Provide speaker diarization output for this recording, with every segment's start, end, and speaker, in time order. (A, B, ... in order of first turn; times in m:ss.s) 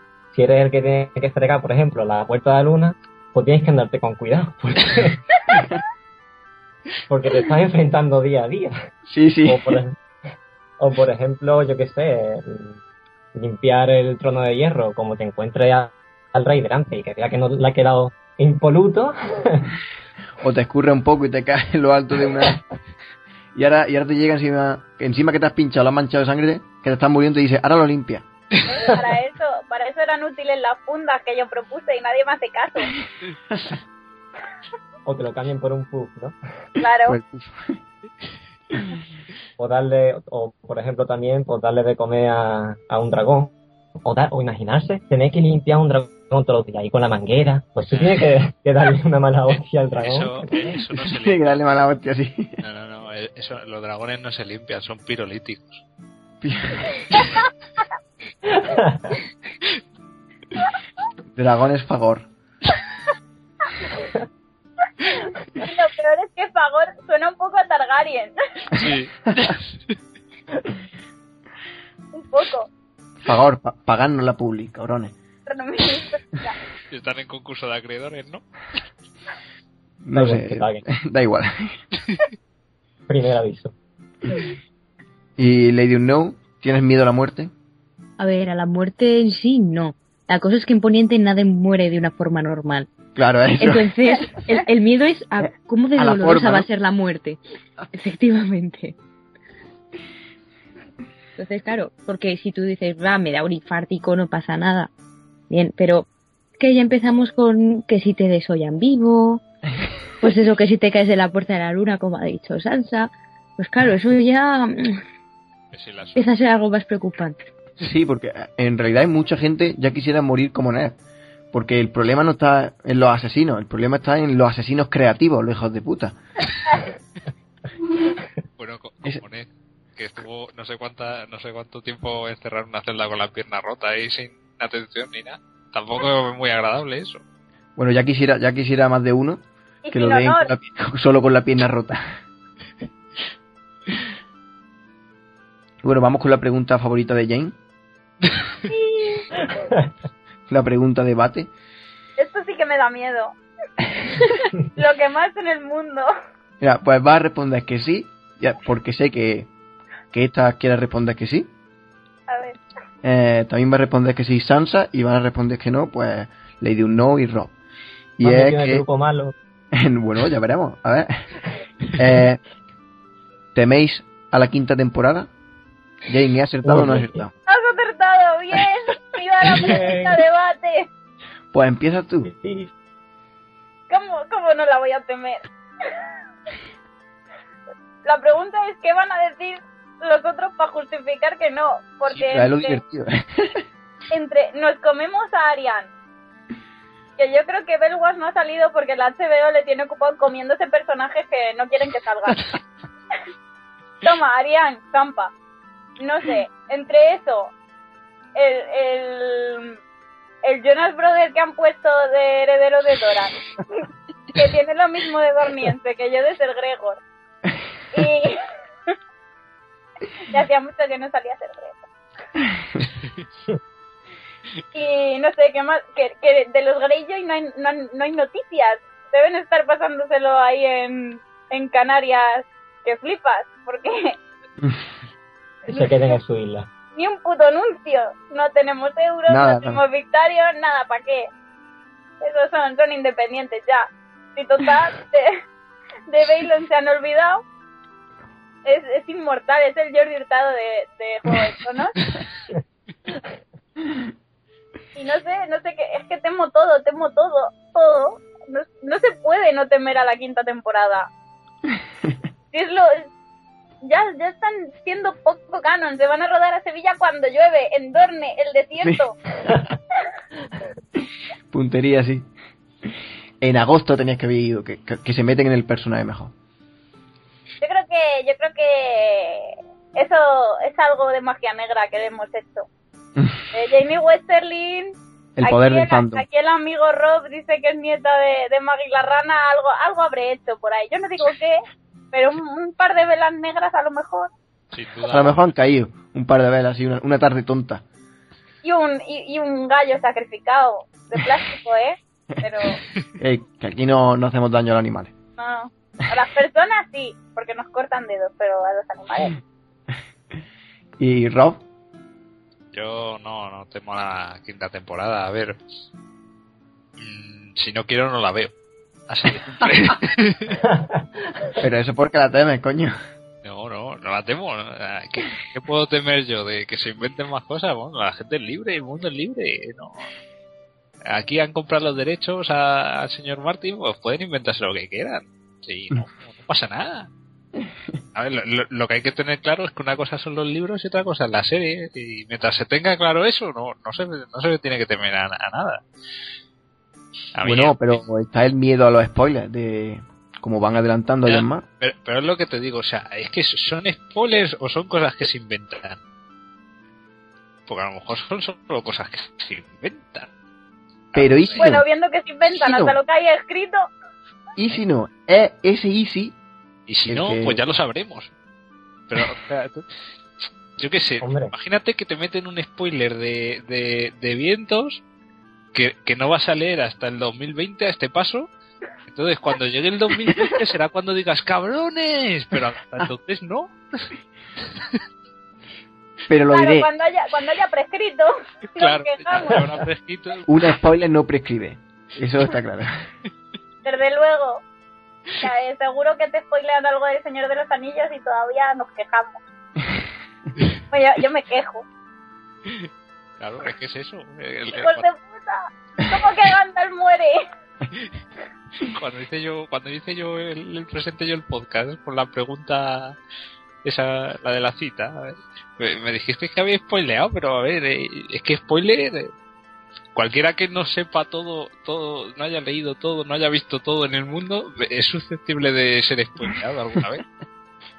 0:00.3-0:05.7 A
0:07.1-0:08.7 A
0:09.1-0:09.8 B
0:09.4-0:10.0 A
0:10.8-0:12.8 A
0:13.3-0:19.7 A
0:20.4-0:22.6 B
0:23.6-0:28.3 B
0:28.7-0:32.9 C
0:33.5-0:33.8 B
0:35.0-0:36.4 A
0:36.8-0:37.2 C
0:37.1-0:37.8 B
0:39.6-0:50.5 A
0:47.9-0:48.3 D
0:49.5-0:51.6 D
0:51.0-0:52.6 B
0:52.6-0:55.8 D
0:56.4-0:56.9 B
0:58.5-0:59.1 A
1:01.4-1:02.3 B
1:05.6-1:08.3 C
1:08.7-1:10.0 D
1:12.1-1:12.7 C
1:13.2-1:15.2 B
1:15.5-1:16.6 C
1:16.9-1:18.4 D
1:20.0-1:21.8 B
1:20.2-1:20.8 A
1:23.1-1:23.8 A
1:25.4-1:27.5 B
1:28.2-1:32.9 E
1:33.2-1:33.9 B
1:33.6-1:37.4 E
1:36.0-1:36.7 B
1:37.9-1:39.0 E
1:41.4-1:44.9 E
1:45.5-1:49.4 E
1:50.2-1:55.0 E
1:55.7-1:56.3 D
1:56.2-1:57.4 E
1:57.8-2:01.0 B
2:01.5-2:06.2 B
2:08.6-2:17.2 D
2:17.8-2:22.0 B
2:19.8-2:20.5 C
2:25.8-2:27.6 B
2:28.7-2:29.3 C
2:30.5-2:31.5 B
2:32.2-2:33.3 C
2:34.1-2:36.1 C
2:36.6-2:39.5 B
2:40.1-2:41.5 B
2:42.3-2:42.6 C
2:43.0-2:47.6 B
2:48.2-2:48.8 B
2:48.2-2:49.4 A
2:49.7-2:51.3 B
2:52.0-2:52.4 B
2:53.5-2:55.3 B
2:56.1-2:57.3 B
2:56.6-2:57.2 A
2:57.5-3:00.9 C
2:59.5-3:00.2 A
3:01.5-3:02.3 B
3:02.2-3:02.7 A
3:03.9-3:05.4 C
3:08.0-3:12.8 C
3:12.1-3:13.6 B
3:14.1-3:15.9 C
3:17.2-3:22.5 C
3:24.0-3:25.3 C
3:26.0-3:27.5 C
3:28.4-3:29.8 C
3:30.4-3:33.4 C
3:34.3-3:37.0 C
3:37.9-3:38.4 C
3:40.3-3:41.8 C
3:44.7-3:54.2 C
3:55.7-3:56.7 A
3:55.7-3:56.2 C
3:57.0-4:01.3 C
3:59.3-3:59.8 B
4:02.2-4:05.4 C
4:06.1-4:07.4 C
4:08.7-4:12.0 C
4:15.0-4:21.1 C
4:21.7-4:22.1 B
4:22.5-4:23.1 C
4:23.8-4:29.1 C
4:31.5-4:32.3 B
4:33.4-4:36.3 B
4:37.6-4:42.7 C
4:43.5-4:54.3 C
4:45.4-4:46.2 B
4:54.7-4:55.5 D
4:55.1-4:57.8 B
4:58.6-5:02.8 C
5:03.2-5:05.1 B
5:05.4-5:09.4 C
5:11.0-5:11.6 B
5:12.7-5:15.6 D
5:17.0-5:18.5 D
5:19.1-5:20.6 D
5:20.6-5:21.5 A
5:21.6-5:22.9 B
5:23.4-5:30.1 D
5:31.1-5:37.1 D
5:38.2-5:45.8 D
5:47.4-5:48.0 D
5:47.4-5:51.6 B
5:51.3-5:56.0 D
5:57.7-6:00.3 D
6:01.1-6:01.6 D
6:01.2-6:01.8 B
6:01.6-6:03.8 C
6:02.6-6:03.0 B
6:04.6-6:06.4 B
6:06.9-6:08.3 D
6:07.1-6:07.6 B
6:09.1-6:09.9 D
6:10.8-6:15.0 D
6:11.2-6:11.5 A
6:15.7-6:18.5 D
6:19.1-6:23.8 D
6:24.6-6:25.0 D
6:26.3-6:26.9 B
6:26.5-6:29.6 C
6:28.8-6:30.5 D
6:30.5-6:33.0 B
6:33.8-6:34.6 C
6:35.4-6:39.4 C
6:40.9-6:41.8 C
6:42.6-6:45.1 D
6:44.7-6:47.4 C
6:47.9-6:48.2 D
6:48.8-6:53.2 D
6:53.8-6:59.3 D
7:00.2-7:07.3 D